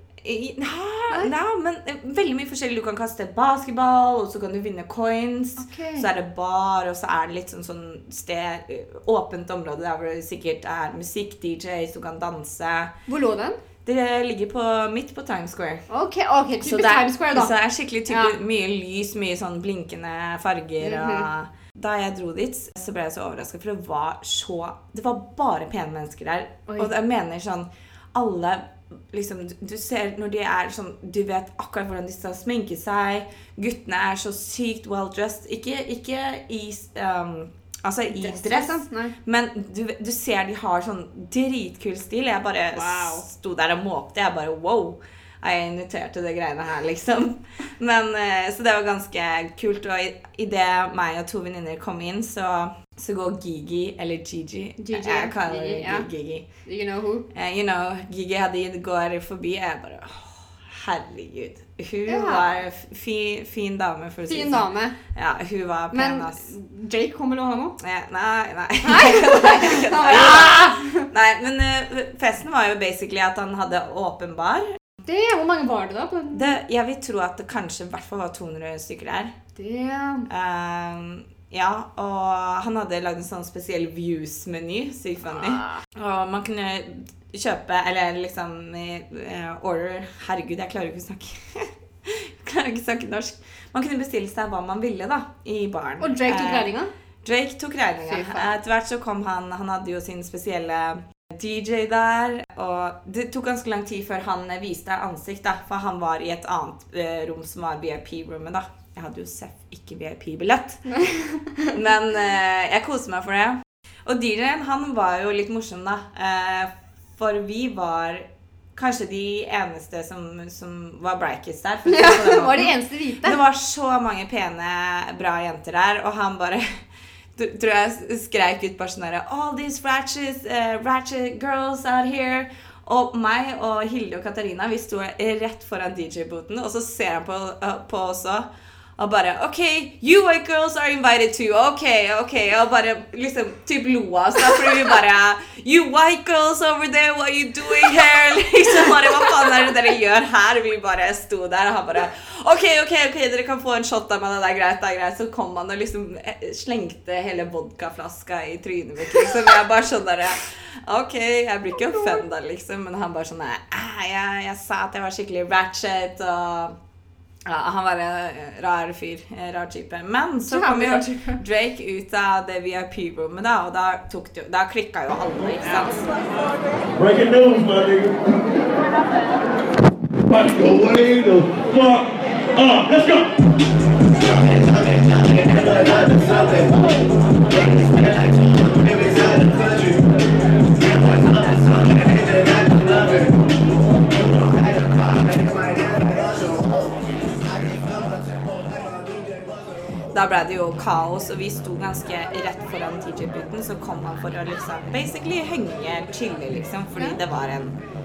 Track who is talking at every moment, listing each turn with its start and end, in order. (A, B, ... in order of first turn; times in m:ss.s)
0:00.2-0:12.9 A
0:05.6-0:06.1 B
0:13.1-0:13.6 B
0:13.8-0:15.8 A
0:15.9-0:17.5 B
0:16.6-0:56.4 A
0:18.1-0:18.4 B
0:20.8-0:21.3 B
0:38.1-0:39.1 B
0:42.7-0:43.2 B
0:54.8-0:56.0 B
0:56.6-0:57.2 B
0:57.3-1:06.5 A
1:02.1-1:02.6 B
1:04.3-1:05.0 B
1:05.9-1:07.8 B
1:07.8-1:14.8 A
1:08.8-1:11.1 B
1:15.0-1:16.5 B
1:16.3-1:19.3 A
1:19.6-1:20.3 B
1:20.3-1:50.9 A
1:25.3-1:25.8 B
1:36.0-1:36.9 B
1:38.0-1:38.6 B
1:50.9-1:51.7 B
1:51.7-2:06.8 A
2:01.9-2:03.4 B
2:07.3-2:46.8 A
2:41.7-2:42.2 B
2:47.4-2:56.2 A
2:50.5-2:51.4 B
2:55.6-2:56.1 B
2:57.0-2:58.1 C
3:00.4-3:02.0 C
3:02.6-3:03.2 C
3:06.3-3:06.6 C
3:09.0-3:09.9 C
3:20.1-3:27.8 A